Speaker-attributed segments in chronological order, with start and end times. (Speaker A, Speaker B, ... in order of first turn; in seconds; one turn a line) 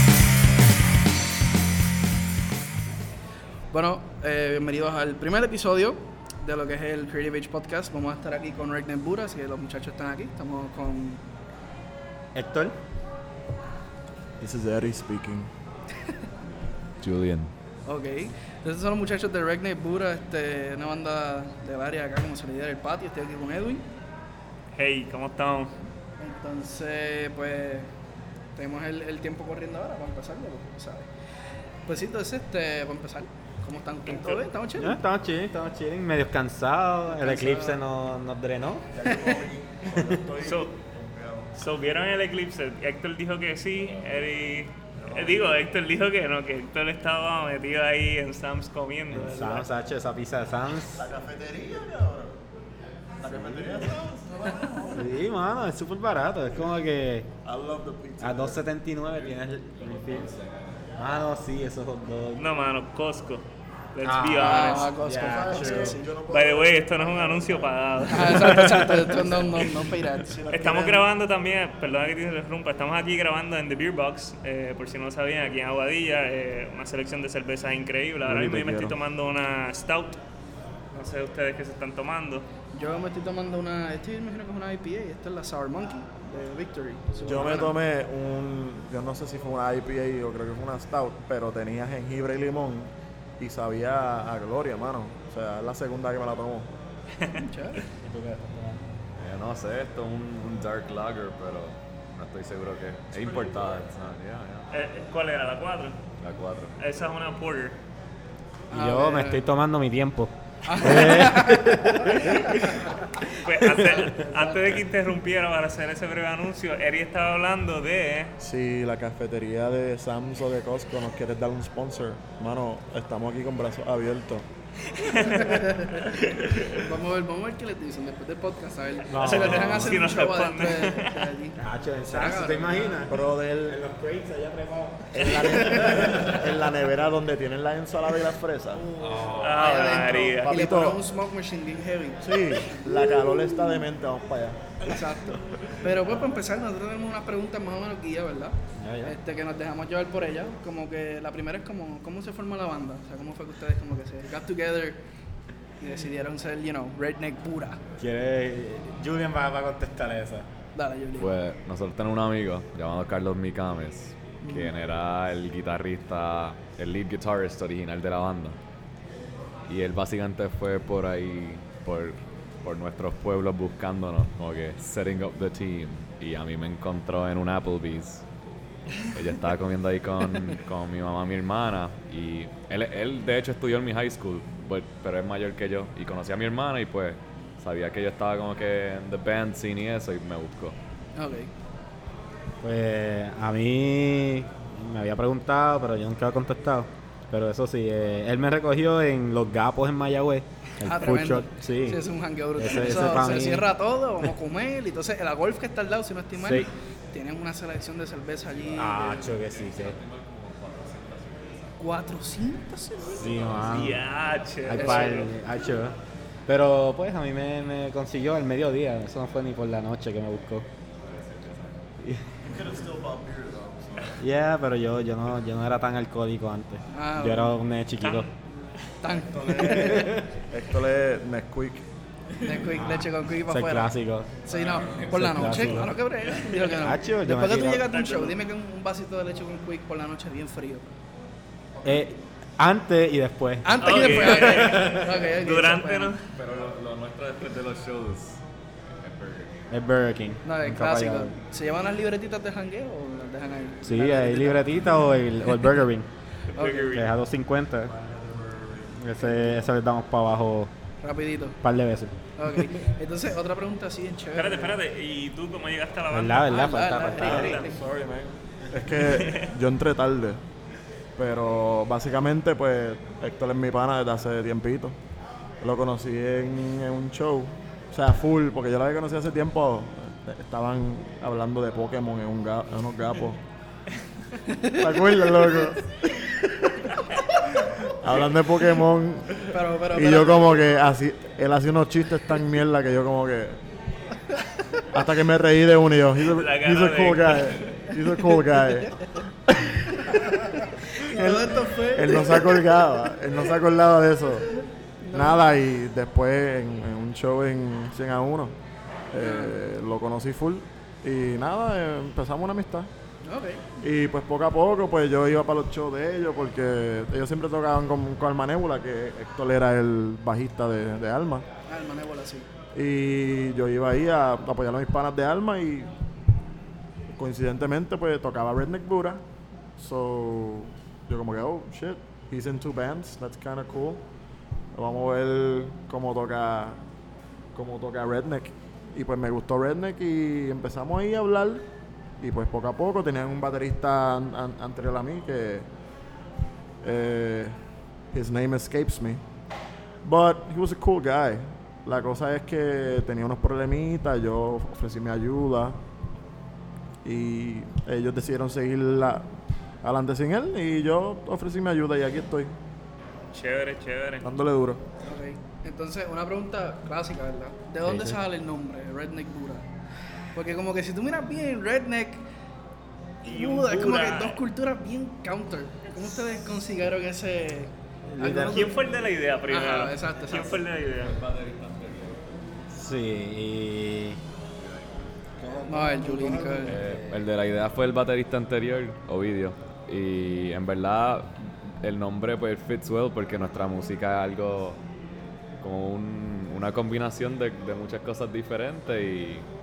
Speaker A: 3.7-11.2
Speaker B: 12.3-12.8
Speaker C: 14.4-15.5
Speaker D: 17.0-17.5
Speaker A: 17.9-23.8
Speaker E: 24.7-25.7
Speaker A: 26.2-27.9
Speaker A: 28.6-31.1
Speaker A: 31.9-35.0
Speaker E: 34.1-34.4
Speaker B: 34.8-38.9
Speaker A: 37.1-37.8
Speaker C: 38.9-41.5
Speaker E: 40.4-40.7
Speaker E: 41.5-49.7
Speaker C: 44.9-45.6
Speaker B: 49.1-51.0
Speaker C: 50.9-52.4
Speaker C: 53.2-55.0
Speaker A: 54.2-55.0
Speaker B: 54.9-57.3
Speaker C: 57.4-58.6
Speaker B: 58.2-60.3
Speaker B: 61.0-62.5
Speaker E: 62.4-64.9
Speaker B: 64.0-66.0
Speaker A: 64.4-66.1
Speaker C: 65.1-68.0
Speaker E: 66.3-69.0
Speaker A: 68.1-71.0
Speaker E: 70.5-80.2
Speaker C: 78.2-79.0
Speaker E: 80.9-82.5
Speaker A: 82.7-87.7
Speaker C: 87.2-96.7
Speaker A: 97.3-97.8
Speaker B: 97.9-98.9
Speaker D: 99.2-104.7
Speaker E: 104.7-106.0
Speaker D: 106.2-106.7
Speaker E: 106.8-107.8
Speaker A: 108.7-109.4
Speaker B: 108.7-112.8
Speaker A: 110.6-112.6
Speaker E: 113.4-118.3
Speaker B: 113.5-114.1
Speaker A: 114.1-114.8
Speaker C: 118.4-124.5
Speaker E: 125.0-126.7
Speaker A: 125.1-133.1
Speaker B: 129.1-130.0
Speaker E: 129.2-131.3
Speaker B: 131.6-136.4
Speaker C: 133.1-133.8
Speaker C: 135.1-138.8
Speaker A: 135.6-136.0
Speaker A: 138.8-142.2
Speaker B: 138.9-140.0
Speaker E: 139.3-140.5
Speaker C: 140.5-141.0
Speaker C: 142.2-144.6
Speaker A: 142.9-143.7
Speaker A: 144.8-155.0
Speaker B: 148.8-149.1
Speaker A: 155.8-157.8
Speaker B: 158.0-160.5
Speaker A: 160.7-161.3
Speaker D: 161.2-168.6
Speaker C: 164.4-164.7
Speaker D: 169.7-178.2
Speaker D: 179.1-190.8
Speaker A: 191.2-191.5
Speaker B: 192.6-202.0
Speaker A: 200.8-209.3
Speaker B: 202.6-203.7
Speaker B: 206.3-206.7
Speaker B: 208.7-210.0
Speaker D: 209.2-211.7
Speaker A: 211.8-213.4
Speaker B: 213.1-214.1
Speaker E: 213.6-215.3
Speaker B: 214.7-215.9
Speaker A: 214.7-215.3
Speaker B: 216.5-220.7
Speaker D: 221.0-221.8
Speaker B: 222.0-222.4
Speaker C: 222.4-224.2
Speaker B: 224.2-228.3
Speaker A: 226.9-227.6
Speaker E: 228.0-228.3
Speaker A: 229.0-230.2
Speaker C: 229.3-231.8
Speaker B: 229.5-230.3
Speaker A: 232.4-233.9
Speaker B: 232.5-235.9
Speaker A: 234.4-240.9
Speaker B: 236.7-237.9
Speaker E: 237.9-238.3
Speaker B: 241.8-245.1
Speaker A: 243.6-246.1
Speaker E: 243.8-246.2
Speaker D: 246.3-248.4
Speaker D: 249.0-249.5
Speaker B: 249.7-251.3
Speaker A: 250.4-254.7
Speaker B: 253.8-256.1
Speaker E: 256.5-257.0
Speaker A: 256.5-257.1
Speaker B: 256.9-257.9
Speaker C: 257.9-259.0
Speaker B: 258.9-260.7
Speaker A: 261.0-261.6
Speaker B: 261.6-262.2
Speaker A: 262.4-264.8
Speaker E: 264.3-267.6
Speaker B: 266.1-267.6
Speaker A: 266.4-267.8
Speaker C: 267.1-270.4
Speaker E: 269.0-269.5
Speaker C: 271.2-275.0
Speaker C: 275.6-283.4
Speaker A: 284.4-284.8
Speaker C: 284.8-286.5
Speaker C: 287.8-293.6
Speaker A: 289.5-290.6
Speaker C: 294.9-304.6
Speaker E: 296.2-297.7
Speaker A: 298.9-299.2
Speaker A: 300.0-302.6
Speaker A: 305.0-305.4
Speaker C: 305.1-308.5
Speaker C: 309.1-312.9
Speaker A: 309.2-309.6
Speaker A: 313.2-313.7
Speaker C: 313.8-321.5
Speaker A: 321.7-322.5
Speaker C: 322.7-325.9
Speaker C: 327.1-329.2
Speaker C: 329.8-334.0
Speaker C: 334.7-336.8
Speaker C: 337.5-341.6
Speaker C: 342.2-345.7
Speaker C: 346.8-347.6
Speaker C: 348.1-349.2
Speaker C: 350.0-355.8
Speaker C: 357.0-362.5
Speaker E: 363.3-364.2
Speaker C: 364.2-364.8
Speaker A: 365.0-369.6
Speaker B: 367.8-368.2
Speaker A: 370.3-372.2
Speaker A: 373.2-378.8
Speaker E: 373.2-374.4
Speaker B: 378.1-378.8
Speaker E: 378.4-381.2
Speaker A: 379.5-380.6
Speaker D: 381.2-382.2
Speaker B: 382.7-384.2
Speaker B: 385.6-387.1
Speaker A: 385.7-386.8
Speaker D: 386.6-394.8
Speaker D: 395.6-399.4